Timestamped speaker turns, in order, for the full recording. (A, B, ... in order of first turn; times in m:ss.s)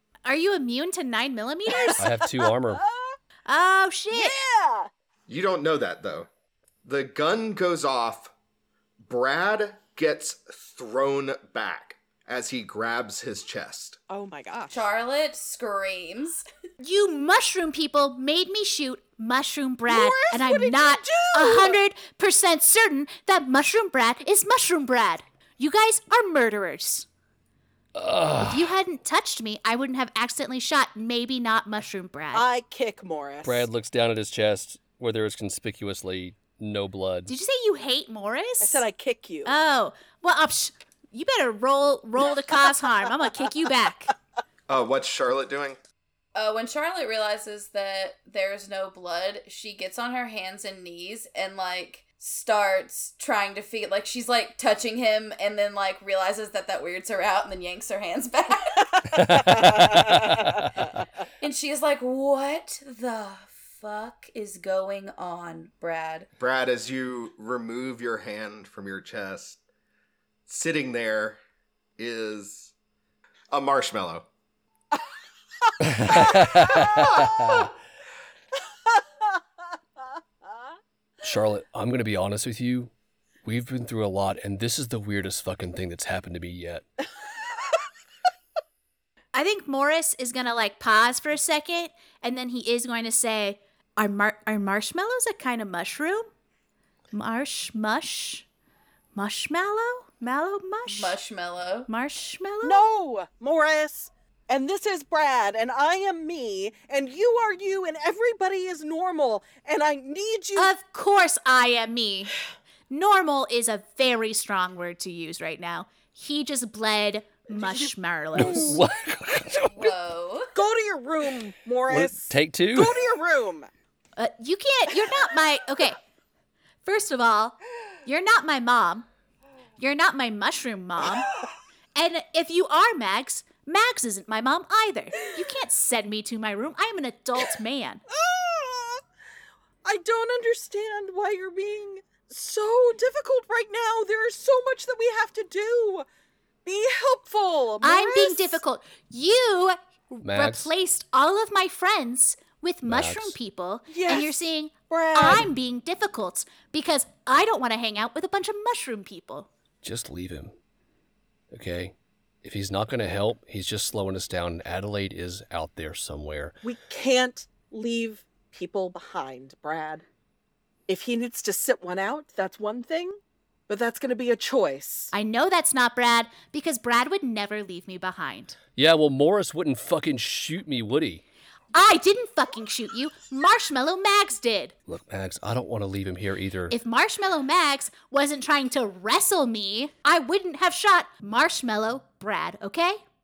0:00.3-0:02.1 A
0:01.7-0:03.2 B
0:02.0-0:02.8 C
0:03.5-0:04.4 A
0:04.1-0:04.9 B
0:05.3-0:06.3 D
0:06.8-0:08.3 D
0:09.0-0:14.0 D
0:14.1-0:14.8 B
0:14.7-0:16.4 E
0:16.8-0:27.1 A
0:19.9-0:21.8 B
0:28.0-0:28.7 C
0:28.4-0:32.5 A
0:32.3-0:33.7 B
0:33.4-0:37.3 C
0:37.3-0:38.9 A
0:38.6-0:39.5 B
0:39.4-0:44.1 A
0:44.7-0:45.8 D
0:46.4-0:59.1 E
0:59.1-1:01.0 C
0:59.4-1:00.6 B
1:01.4-1:06.3 E
1:06.4-1:09.6 D
1:10.5-1:11.4 D
1:12.0-1:12.7 D
1:13.5-1:14.3 D
1:15.8-1:17.7 C
1:16.1-1:17.6 D
1:21.2-1:22.9 C
1:23.4-1:26.8 C
1:29.3-1:36.3 A
1:37.1-1:38.5 A
1:39.2-1:41.2 A
1:40.9-1:41.9 E
1:41.9-1:42.8 A
1:42.6-1:50.7 B
1:50.6-1:52.3 A
1:52.9-1:58.8 A
1:57.6-1:58.8 B
1:58.4-1:59.9 C
1:59.7-2:00.5 E
2:00.5-2:03.7 B
2:01.9-2:03.0 C
2:04.2-2:06.0 A
2:06.8-2:09.1 A
2:09.8-2:11.3 A
2:12.0-2:18.0 A
2:18.1-2:19.0 B
2:19.8-2:26.1 B
2:26.6-2:28.6 B
2:27.8-2:39.5 A
2:30.2-2:30.7 C
2:32.8-2:33.4 C
2:33.9-2:34.4 B
2:34.9-2:35.5 B
2:39.8-2:40.5 C
2:41.5-2:46.6 C
2:46.6-2:50.0 B
2:50.9-2:55.1 B
2:55.1-2:58.6 A
2:58.8-3:01.2 C
3:01.7-3:04.7 A
3:04.9-3:06.8 C
3:06.7-3:13.0 A